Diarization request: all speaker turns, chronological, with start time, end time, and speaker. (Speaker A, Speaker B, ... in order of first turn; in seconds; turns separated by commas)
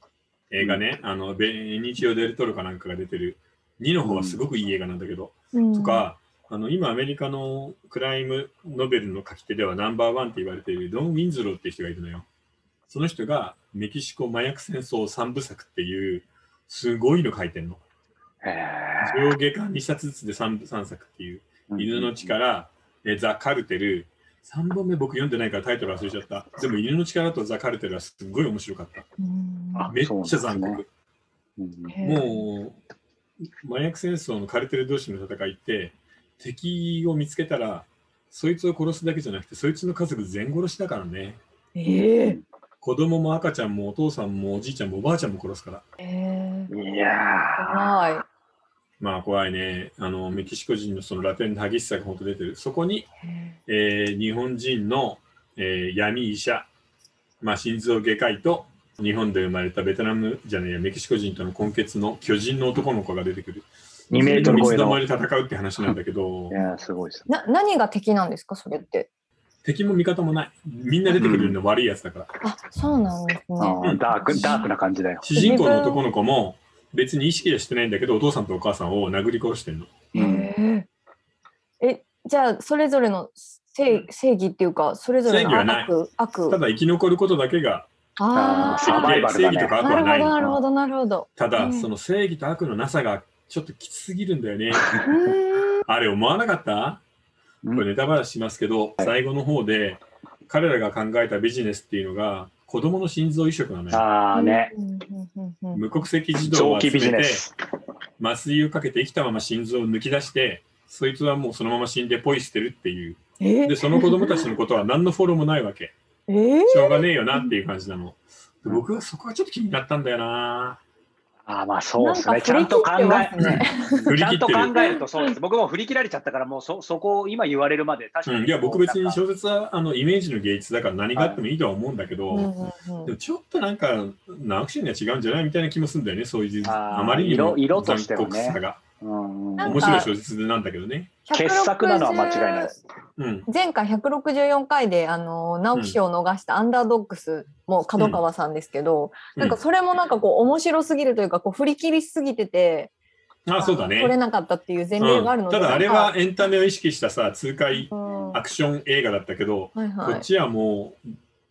Speaker A: 0.5-12.2, Speaker B: 4.0-4.4, Speaker C: 5.5-6.1, Speaker A: 12.9-17.8, Speaker B: 18.4-19.3, Speaker A: 19.0-29.1, Speaker B: 21.7-22.3, Speaker C: 29.2-29.9, Speaker B: 29.8-30.8, Speaker A: 29.9-30.9, Speaker B: 31.6-31.9, Speaker C: 31.9-32.4, Speaker A: 32.0-32.8, Speaker A: 33.6-41.4, Speaker C: 41.8-42.4, Speaker A: 42.8-45.8, Speaker C: 46.0-46.7, Speaker B: 46.7-48.0, Speaker C: 47.6-48.2, Speaker A: 49.0-53.1, Speaker C: 53.2-53.6, Speaker A: 53.7-56.7, Speaker A: 57.4-66.5, Speaker B: 64.1-65.0, Speaker C: 64.2-64.7, Speaker B: 66.5-67.3, Speaker C: 67.3-69.1, Speaker A: 69.6-72.3, Speaker B: 71.1-71.5, Speaker C: 72.4-74.7, Speaker B: 73.6-75.2, Speaker A: 75.2-80.0, Speaker C: 75.3-76.0, Speaker B: 80.1-80.5, Speaker C: 80.1-80.9, Speaker C: 81.8-86.6, Speaker A: 85.2-85.9, Speaker A: 86.5-87.9, Speaker C: 88.2-89.2, Speaker B: 88.3-89.9, Speaker A: 88.6-90.6, Speaker C: 89.8-91.9, Speaker A: 91.4-95.0, Speaker B: 94.8-95.1, Speaker C: 95.0-95.8, Speaker A: 95.8-97.0, Speaker A: 97.7-104.0, Speaker B: 103.9-104.7, Speaker C: 104.3-105.8, Speaker A: 105.7-107.4, Speaker B: 106.4-107.5, Speaker A: 108.2-115.9, Speaker C: 113.4-114.5, Speaker C: 116.3-117.5, Speaker A: 116.7-120.8, Speaker B: 121.5-129.2, Speaker C: 122.0-124.1, Speaker A: 123.4-124.8, Speaker C: 124.7-125.3, Speaker A: 128.2-132.5, Speaker B: 131.1-131.4, Speaker C: 132.3-133.1, Speaker A: 133.0-138.8, Speaker B: 136.6-140.0, Speaker C: 139.6-140.1, Speaker A: 139.6-141.2, Speaker C: 141.2-142.7, Speaker B: 141.3-142.7, Speaker A: 143.2-143.5, Speaker C: 143.5-152.9, Speaker A: 153.4-154.2, Speaker C: 153.6-156.2, Speaker A: 155.0-161.0, Speaker C: 157.9-158.4, Speaker C: 159.8-160.3